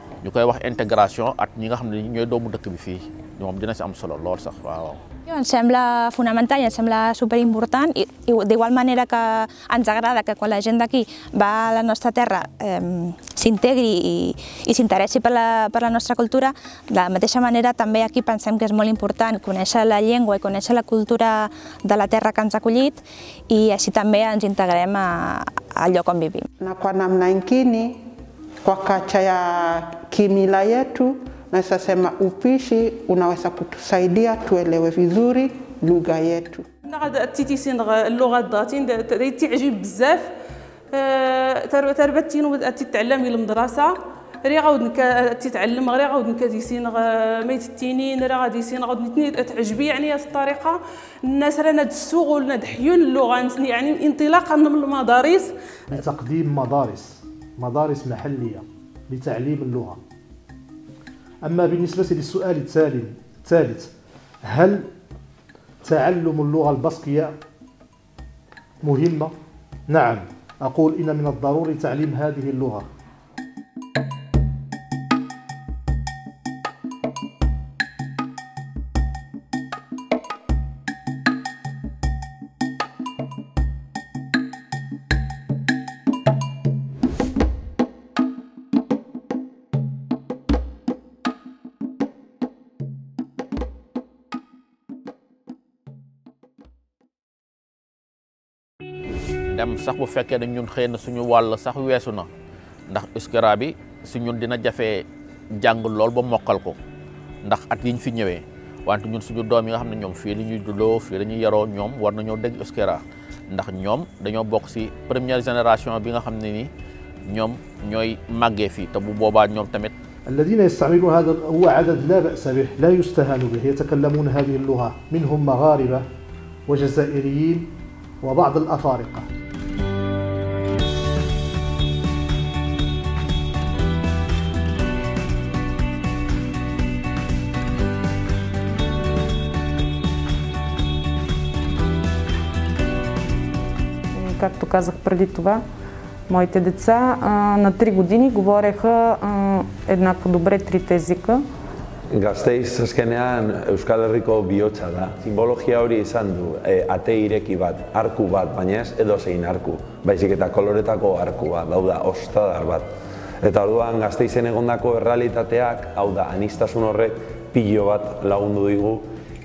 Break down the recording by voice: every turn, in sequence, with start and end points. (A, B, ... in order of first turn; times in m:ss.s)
0:00.2-0:05.0 A
0:05.3-0:26.5 B
0:26.6-0:28.0 C
0:28.6-0:36.6 C
0:36.9-0:40.3 D
0:40.9-0:55.5 D
0:55.9-1:00.0 E
1:01.4-1:03.9 E
1:04.4-1:04.9 E
1:05.8-1:07.3 E
1:08.8-1:09.3 E
1:09.9-1:12.9 E
1:39.5-1:42.3 A
1:42.9-1:46.8 A
1:47.4-1:56.7 A
1:57.3-1:59.9 A
2:00.3-2:06.0 E
2:06.7-2:09.3 E
2:24.1-2:25.6 F
2:26.3-2:31.4 F
2:32.1-2:42.9 G
2:43.4-2:49.0 G